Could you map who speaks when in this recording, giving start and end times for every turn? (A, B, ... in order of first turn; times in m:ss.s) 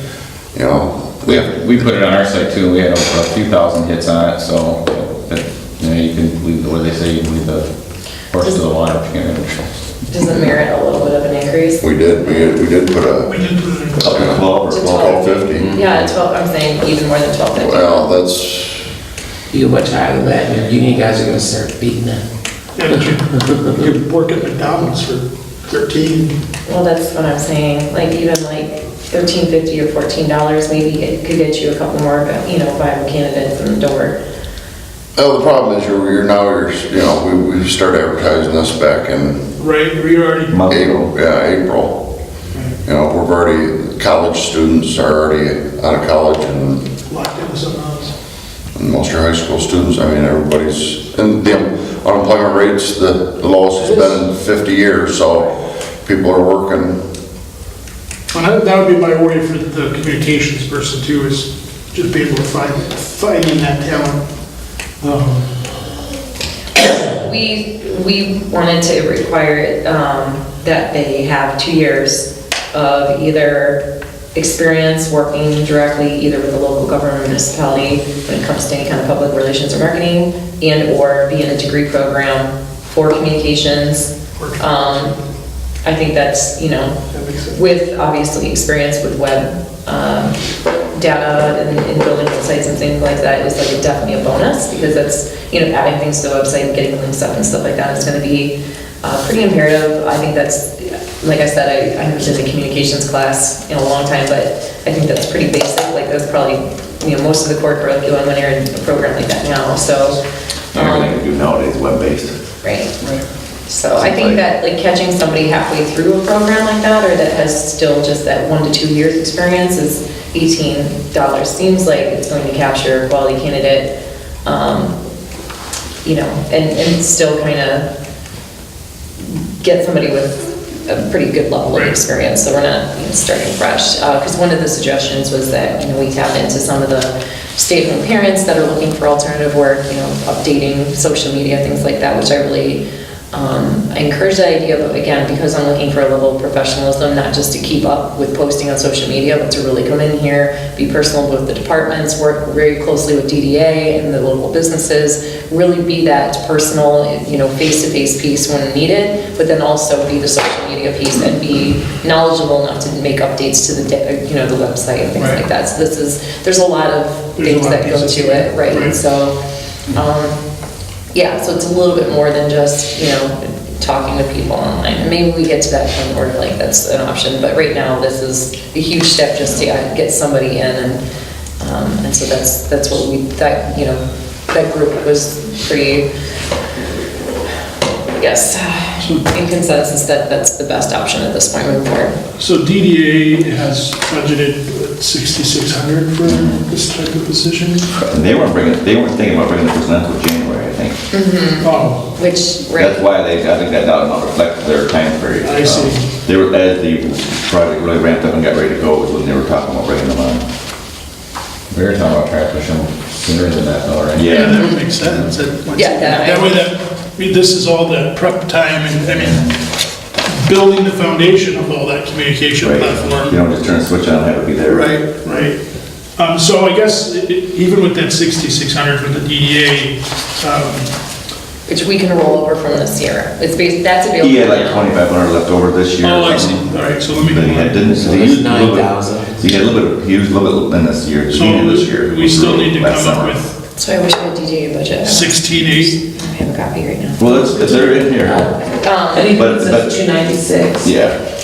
0:00.5-0:01.8 A
0:01.2-0:07.7 B
0:08.3-0:09.7 B
0:10.1-0:12.6 C
0:11.8-0:13.3 A
0:13.2-0:14.2 D
0:14.0-0:15.5 E
0:14.0-0:15.7 A
0:14.7-0:18.1 C
0:17.5-0:18.9 A
0:19.5-0:22.2 F
0:21.5-0:21.9 D
0:22.8-0:26.4 D
0:26.7-0:34.2 C
0:35.2-0:39.4 A
0:39.6-0:40.6 D
0:40.5-0:41.1 E
0:40.7-0:42.0 A
0:42.8-0:46.8 A
0:47.1-0:48.1 D
0:48.8-0:57.0 A
0:53.8-0:54.2 D
0:58.3-1:04.2 D
1:05.0-1:05.6 D
1:06.8-1:13.8 C
1:14.4-1:25.2 C
1:24.4-1:24.8 D
1:25.8-1:27.0 C
1:27.1-1:27.6 D
1:27.5-1:30.4 C
1:30.9-1:50.2 C
1:50.7-1:51.1 C
1:50.7-1:52.4 E
1:52.6-1:53.0 C
1:53.7-2:03.9 C
1:53.9-1:54.4 E
2:04.4-2:05.0 C
2:06.0-2:07.9 C
2:09.2-2:49.4 C
2:45.2-2:45.4 D
2:47.4-2:49.0 D
2:49.9-2:50.4 C
2:51.1-3:01.0 C
3:01.6-3:06.1 C
3:08.2-3:12.2 C
3:09.0-3:09.3 D
3:12.4-3:17.9 D
3:16.3-3:16.6 E
3:18.1-3:21.0 E
3:21.1-3:23.0 C
3:21.6-3:22.1 D
3:22.8-3:30.4 E
3:25.4-3:26.1 D
3:31.7-3:34.4 B
3:34.2-3:34.7 E
3:34.3-3:39.6 D
3:34.3-3:34.9 C
3:35.0-3:35.3 B
3:35.7-3:36.7 C
3:39.2-3:39.5 B
3:40.2-3:43.4 D
3:42.6-3:45.0 E
3:44.7-3:45.6 D
3:46.2-3:50.9 D
3:51.7-3:54.9 C
3:54.2-4:03.4 E
3:56.0-3:58.0 D
3:58.0-3:59.6 F
4:01.3-4:03.5 D
4:03.8-4:07.9 C
4:05.0-4:06.0 D
4:07.2-4:08.4 E
4:08.8-4:09.3 C
4:09.1-4:10.9 F
4:09.3-4:10.0 E
4:10.8-4:11.2 E